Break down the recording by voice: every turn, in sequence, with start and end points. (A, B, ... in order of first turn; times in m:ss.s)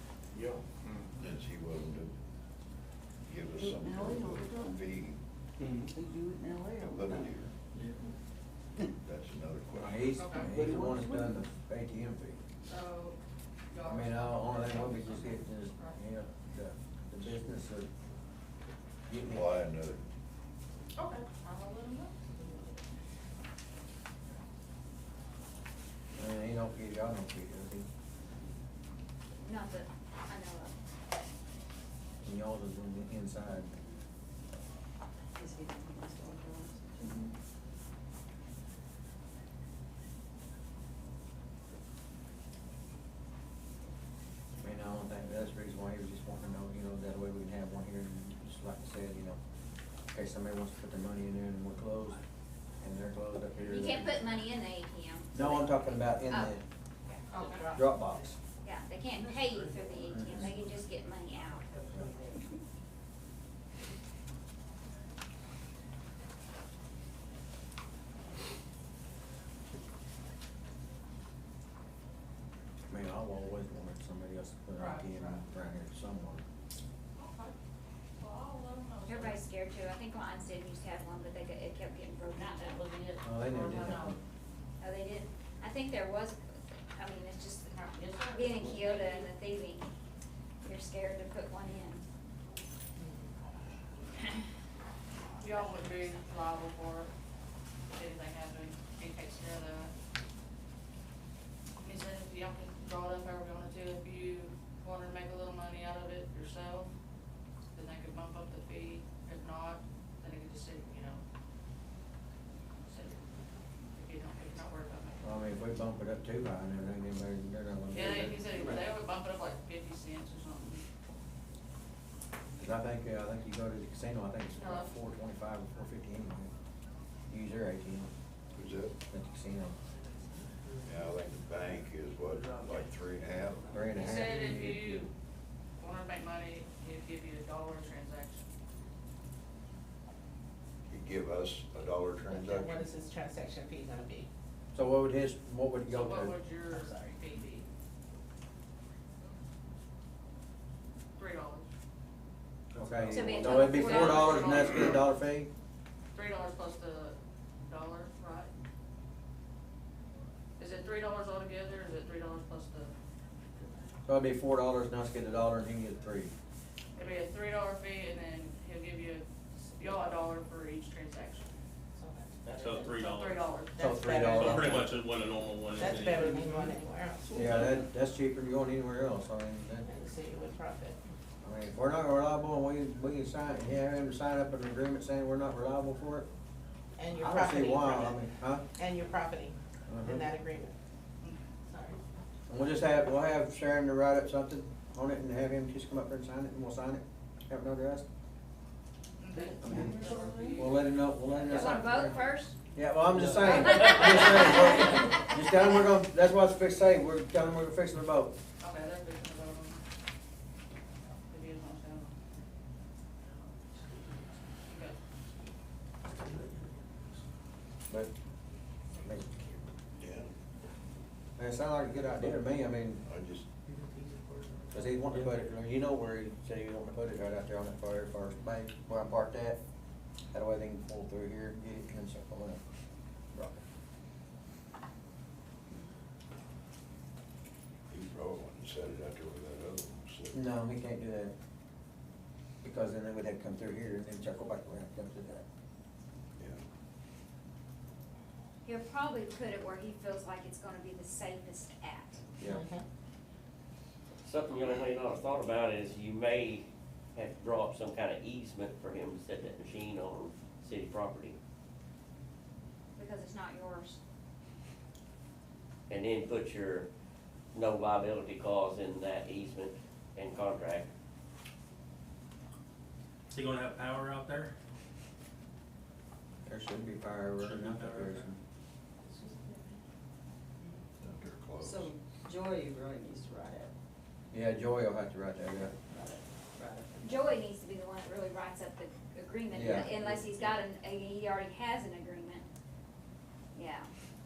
0:01.2-0:02.1 A
0:03.3-0:05.2 A
0:03.6-0:04.8 B
0:05.9-0:07.3 B
0:06.8-0:07.5 A
0:09.0-0:10.1 A
0:09.7-0:12.4 C
0:10.2-0:10.5 D
0:10.6-0:11.2 B
0:12.7-0:13.2 D
0:13.7-0:16.0 D
0:13.8-0:17.9 C
0:19.1-0:19.5 C
0:19.2-0:20.0 A
0:21.0-0:22.8 D
0:26.2-0:27.8 C
0:29.4-0:30.7 E
0:32.2-0:33.7 C
0:35.4-0:37.2 B
0:44.6-0:49.4 C
0:50.1-0:52.2 C
0:52.8-0:54.3 C
0:53.6-0:56.6 E
0:55.3-0:56.6 C
0:57.1-0:57.9 F
0:57.3-0:57.7 D
0:57.7-0:58.4 C
0:58.6-1:01.7 E
1:00.1-1:00.5 C
1:12.9-1:16.4 C
1:14.8-1:15.4 D
1:17.2-1:17.5 D
1:18.2-1:19.4 D
1:19.1-1:22.8 E
1:22.3-1:24.2 D
1:23.2-1:24.2 C
1:24.8-1:26.4 E
1:26.9-1:29.9 E
1:27.7-1:29.2 D
1:30.6-1:32.0 E
1:33.0-1:33.2 F
1:35.4-1:37.1 D
1:37.9-1:39.9 D
1:41.8-1:46.9 D
1:47.7-1:51.2 D
1:52.8-1:53.2 D
1:54.0-1:55.2 D
1:55.2-1:58.8 C
1:57.9-2:00.8 D
2:02.6-2:06.5 C
2:04.5-2:04.9 D
2:07.3-2:08.1 C
2:08.6-2:09.0 A
2:09.1-2:09.7 C
2:10.8-2:13.8 A
2:13.7-2:15.1 C
2:13.9-2:15.1 D
2:15.8-2:18.4 D
2:20.9-2:22.8 A
2:22.3-2:24.3 F
2:24.7-2:26.4 C
2:25.9-2:27.6 D
2:26.7-2:27.2 F
2:31.2-2:31.6 D
2:32.8-2:33.3 G
2:32.8-2:35.5 C
2:33.1-2:34.6 E
2:33.4-2:34.9 D
2:36.1-2:38.5 D
2:40.6-2:42.9 D
2:44.0-2:46.3 C
2:46.9-2:51.5 D
2:51.9-2:53.0 F
2:52.6-2:53.6 G
2:52.9-2:53.8 D
2:53.7-2:54.7 F
2:53.8-2:54.9 C
2:54.2-2:56.7 G
2:55.7-2:57.5 F
2:57.3-2:57.8 G
2:57.3-2:59.9 C
2:59.8-3:01.0 F
3:01.4-3:06.3 C
3:07.0-3:08.2 F
3:07.2-3:08.6 C
3:08.7-3:10.7 F
3:09.9-3:10.2 C
3:11.7-3:12.0 F
3:12.5-3:18.0 C
3:19.2-3:21.8 D
3:19.5-3:20.6 B
3:19.6-3:28.3 C
3:21.5-3:22.6 E
3:23.4-3:25.1 E
3:28.6-3:29.8 D
3:31.3-3:32.1 D
3:33.8-3:34.3 G
3:34.7-3:35.0 D
3:36.2-3:36.8 G
3:39.0-3:39.6 C
3:40.0-3:40.3 A
3:41.4-3:43.0 C
3:43.0-3:43.4 A
3:43.7-3:45.4 G
3:44.7-3:49.6 C
3:50.3-3:52.6 C
3:53.3-3:53.6 C
3:57.9-4:00.4 A
4:00.3-4:01.3 C
4:02.6-4:05.4 C
4:08.6-4:12.2 E
4:12.4-4:12.6 C
4:12.4-4:12.8 F
4:14.2-4:16.6 H
4:17.1-4:21.4 H
4:23.0-4:24.0 E
4:25.9-4:26.8 H
4:27.5-4:30.8 H
4:33.3-4:34.5 G
4:36.4-4:38.4 C
4:37.4-4:38.2 G
4:39.1-4:39.8 B
4:41.0-4:41.9 A
4:41.6-4:43.7 B
4:44.3-4:45.7 C
4:45.9-4:47.1 B
4:47.0-4:52.4 E
4:49.5-4:49.9 C
4:49.7-4:50.2 B
4:53.5-4:53.9 E